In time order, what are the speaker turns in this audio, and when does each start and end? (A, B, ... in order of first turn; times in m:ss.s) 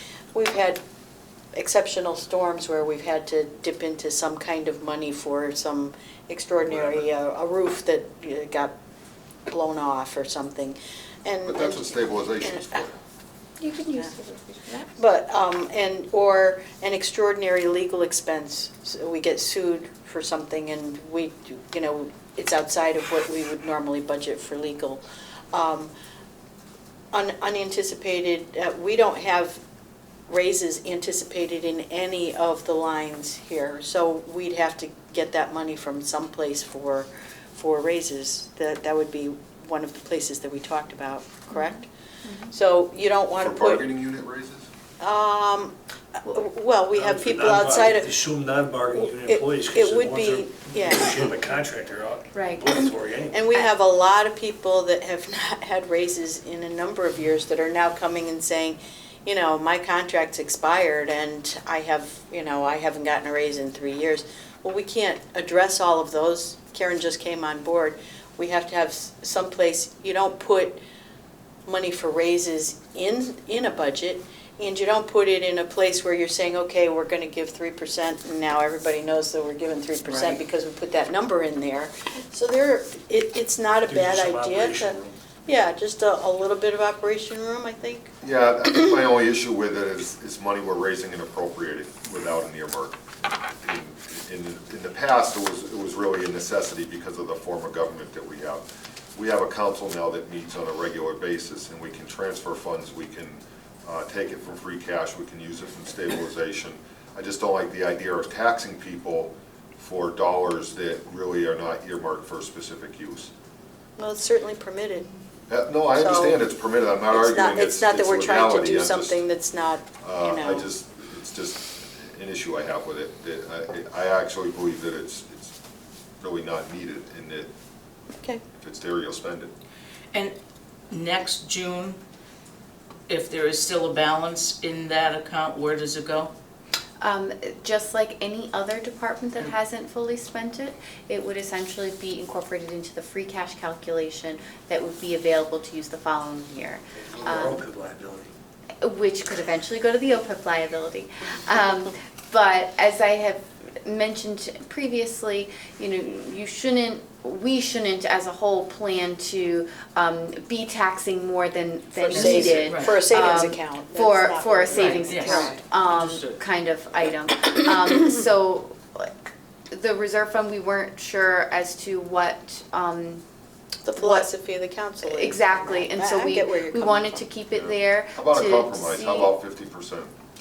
0:00.3-0:00.8 A
0:01.5-0:08.7 A
0:09.5-0:12.8 A
0:11.5-0:13.0 B
0:13.6-0:15.0 C
0:15.0-0:25.0 A
0:25.5-0:25.9 A
0:27.1-0:29.6 A
0:30.3-0:41.9 A
0:41.5-0:42.5 C
0:42.5-0:43.9 A
0:43.4-0:44.7 B
0:45.0-0:48.2 A
0:46.9-0:53.4 D
0:48.9-0:51.4 A
0:52.3-0:52.7 C
0:53.3-1:10.8 A
1:11.7-1:28.1 A
1:23.9-1:25.2 D
1:28.2-1:33.0 B
1:33.6-1:53.3 B
1:54.0-1:55.1 A
1:55.5-1:59.3 B
1:55.9-1:56.4 A
1:57.1-2:00.7 A
2:00.0-2:05.6 B
2:06.2-2:07.5 B
2:08.6-2:09.5 B
2:10.9-2:12.0 E
2:13.1-2:16.3 E
2:17.0-2:27.7 C
2:27.0-2:28.3 D
2:28.8-2:49.1 C
2:42.0-2:45.6 A
2:42.1-2:43.1 E
2:44.7-2:46.4 E
2:49.7-2:53.2 C
2:53.8-2:57.2 A
2:53.9-2:54.3 C
2:55.0-2:59.4 C
2:57.5-3:00.1 B